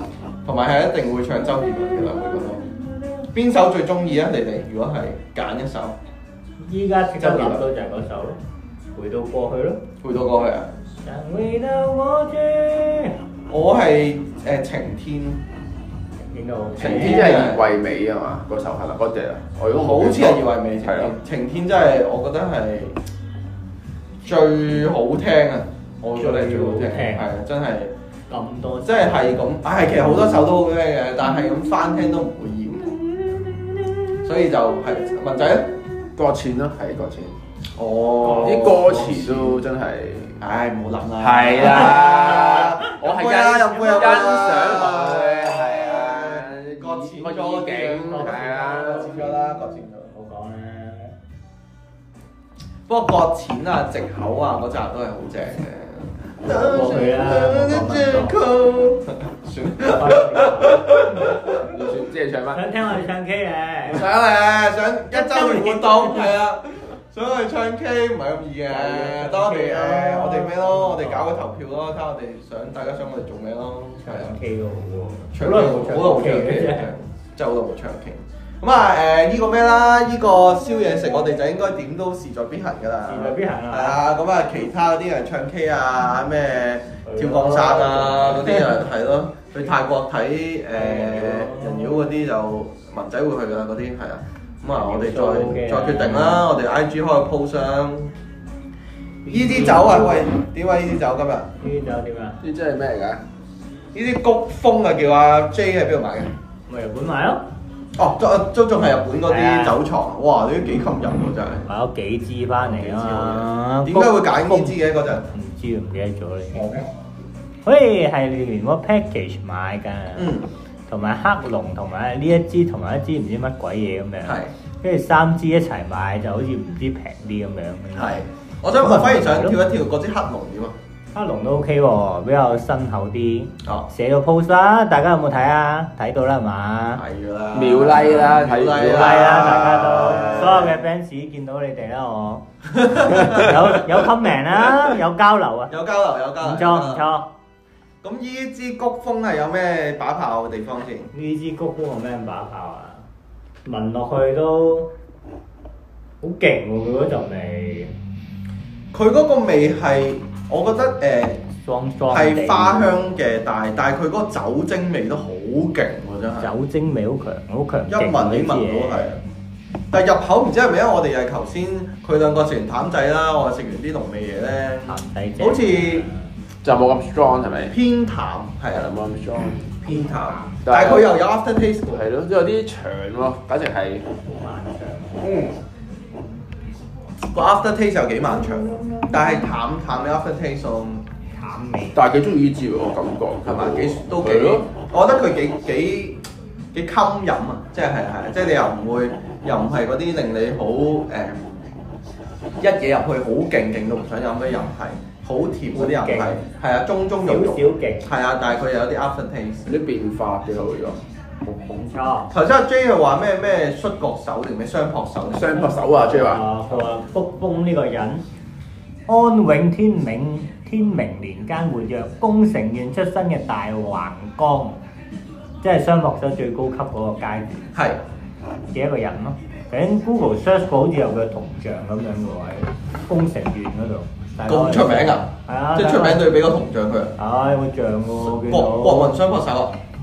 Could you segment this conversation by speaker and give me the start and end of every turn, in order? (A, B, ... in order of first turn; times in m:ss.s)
0:00.4-0:02.7 A
0:01.7-0:03.3 B
0:03.3-0:06.0 A
0:06.6-0:08.4 B
0:07.2-0:07.6 C
0:08.9-0:09.8 B
0:10.0-0:10.7 A
0:11.0-0:13.2 B
0:13.5-0:15.4 A
0:16.3-0:17.4 B
0:16.8-0:21.2 C
0:16.8-0:17.7 A
0:19.7-0:23.0 A
0:24.2-0:27.9 A
0:26.2-0:27.3 B
0:28.3-0:29.4 B
0:28.8-0:35.8 A
0:36.2-0:37.4 C
0:37.8-0:39.6 A
0:38.2-0:38.5 B
0:38.4-0:40.4 C
0:40.4-0:50.1 A
0:41.2-0:49.4 C
0:41.7-0:42.3 B
0:43.8-0:44.1 B
0:48.0-0:51.2 B
0:52.9-1:01.7 A
0:56.4-0:58.4 B
0:59.9-1:01.4 B
1:01.6-1:02.6 C
1:02.5-1:04.0 B
1:03.9-1:14.3 A
1:05.1-1:06.3 B
1:08.7-1:11.4 B
1:14.0-1:16.9 B
1:15.3-1:38.1 A
1:23.1-1:24.0 B
1:27.0-1:28.7 B
1:30.7-1:32.2 B
1:34.7-1:36.5 B
1:39.2-1:40.3 B
1:39.3-1:41.5 A
1:41.6-1:42.4 B
1:42.4-1:43.2 C
1:43.9-1:46.3 A
1:46.7-1:47.4 B
1:48.0-1:51.6 A
1:49.3-1:49.8 B
1:51.6-1:54.8 B
1:52.6-1:55.3 A
1:55.3-1:56.8 B
1:57.6-2:00.3 B
2:00.2-2:00.5 A
2:00.9-2:08.2 B
2:04.3-2:04.5 A
2:08.0-2:10.8 A
2:08.8-2:09.6 B
2:11.1-2:17.0 B
2:17.0-2:20.8 A
2:17.5-2:19.8 C
2:18.8-2:22.4 B
2:22.7-2:23.8 A
2:23.0-2:25.7 B
2:25.7-2:27.0 A
2:26.4-2:27.3 B
2:28.0-2:31.1 A
2:31.1-2:33.0 B
2:33.7-2:34.9 B
2:36.2-2:37.9 B
2:38.9-2:41.4 A
2:41.5-2:43.2 B
2:42.1-2:46.5 A
2:46.4-2:49.1 B
2:47.9-2:49.2 A
2:49.9-2:56.1 A
2:54.9-2:56.3 B
2:56.6-2:57.8 C
2:57.7-2:58.9 A
2:58.7-2:59.8 C
2:59.8-3:02.0 A
2:59.9-3:00.6 B
3:00.6-3:01.2 C
3:01.9-3:04.1 C
3:04.2-3:05.4 B
3:05.2-3:05.5 C
3:07.3-3:11.0 A
3:08.7-3:09.0 B
3:11.3-3:12.0 B
3:11.9-3:14.6 C
3:13.5-3:16.2 A
3:16.7-3:21.5 A
3:22.6-3:29.7 A
3:25.7-3:26.4 B
3:27.2-3:28.1 B
3:29.7-3:31.0 C
3:31.4-3:32.3 B
3:32.3-3:35.8 A
3:35.3-3:36.4 C
3:35.9-3:38.2 B
3:39.1-3:44.8 B
3:45.6-3:47.7 B
3:47.8-3:48.0 A
3:48.7-3:56.3 B
3:54.5-3:57.1 A
3:57.2-3:59.1 B
3:58.4-3:59.8 A